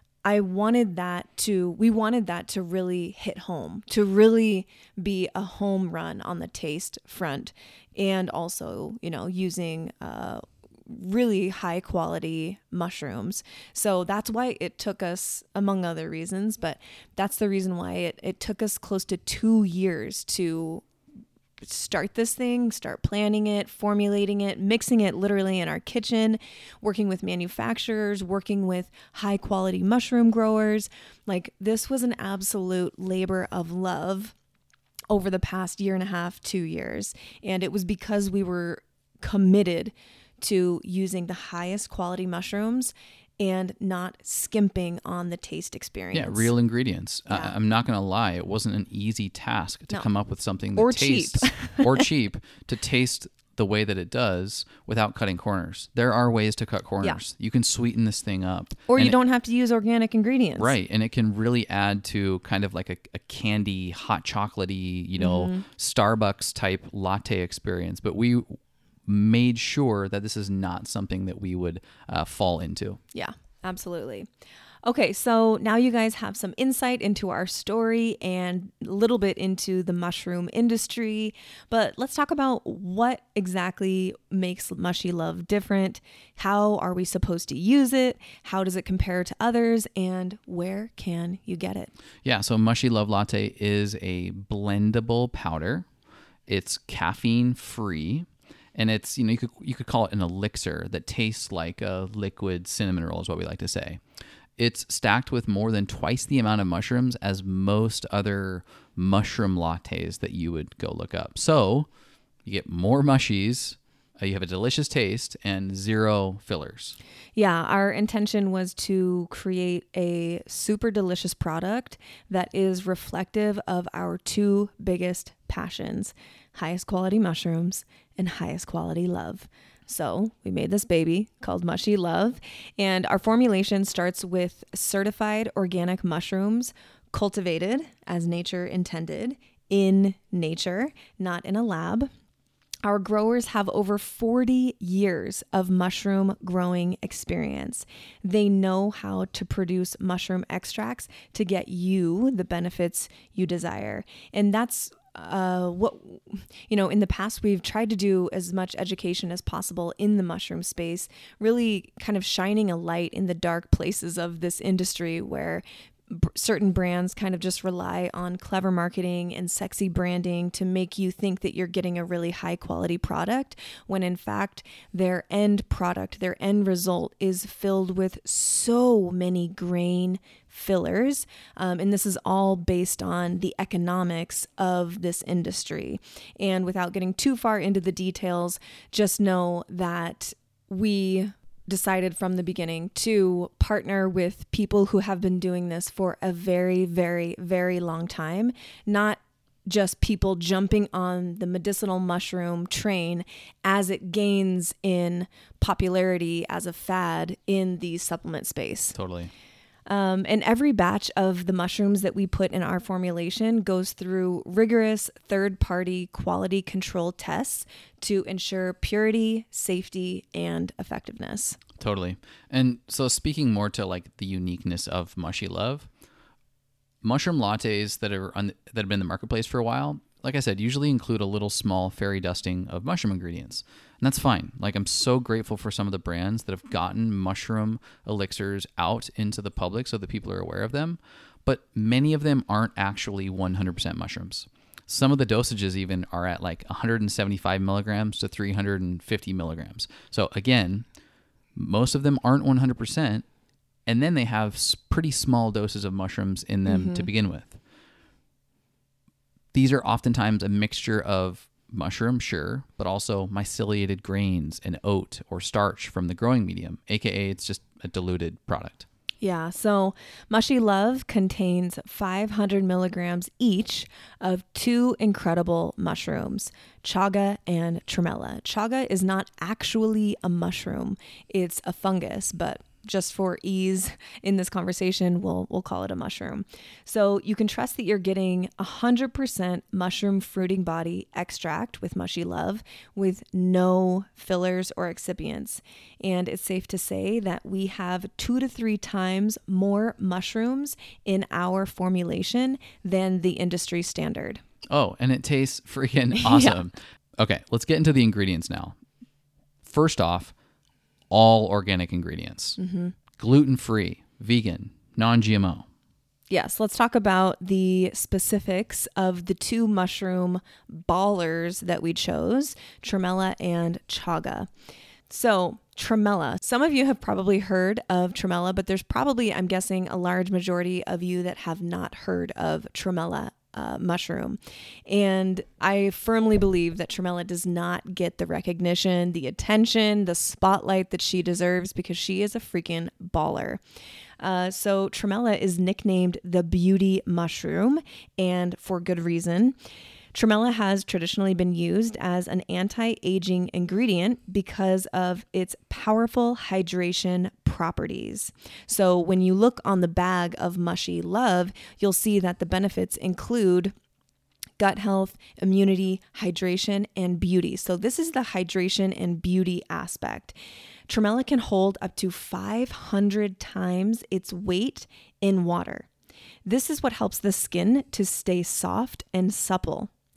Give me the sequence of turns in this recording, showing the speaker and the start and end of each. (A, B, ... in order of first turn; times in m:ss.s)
0:00.2-0:20.8 A
0:21.6-0:34.3 A
0:35.1-0:46.5 A
0:46.1-0:59.1 B
0:50.8-0:52.1 A
0:58.9-1:00.7 A
1:00.6-1:13.0 B
1:05.2-1:05.6 A
1:13.1-1:14.3 A
1:14.8-1:31.9 A
1:32.2-1:35.9 B
1:36.5-1:44.0 B
1:44.6-1:51.9 B
1:52.4-1:57.0 B
1:57.4-2:22.1 A
2:22.8-3:29.0 A
3:28.9-3:29.3 B
3:29.9-3:41.6 A
3:41.8-3:45.9 B
3:47.0-4:10.9 B
4:11.5-4:13.2 B
4:13.8-4:17.6 B
4:16.6-4:17.1 A
4:19.5-4:28.9 B
4:29.2-5:04.4 A
5:04.7-5:08.8 B
5:06.2-5:06.6 A
5:09.6-5:10.3 B
5:11.1-5:12.6 B
5:12.6-5:13.0 A
5:13.2-5:15.7 B
5:16.3-5:24.5 A
5:25.1-5:43.6 A
5:44.2-5:49.5 A
5:50.1-6:03.7 A
6:04.6-6:10.3 A
6:10.9-6:15.9 A
6:16.4-6:19.9 A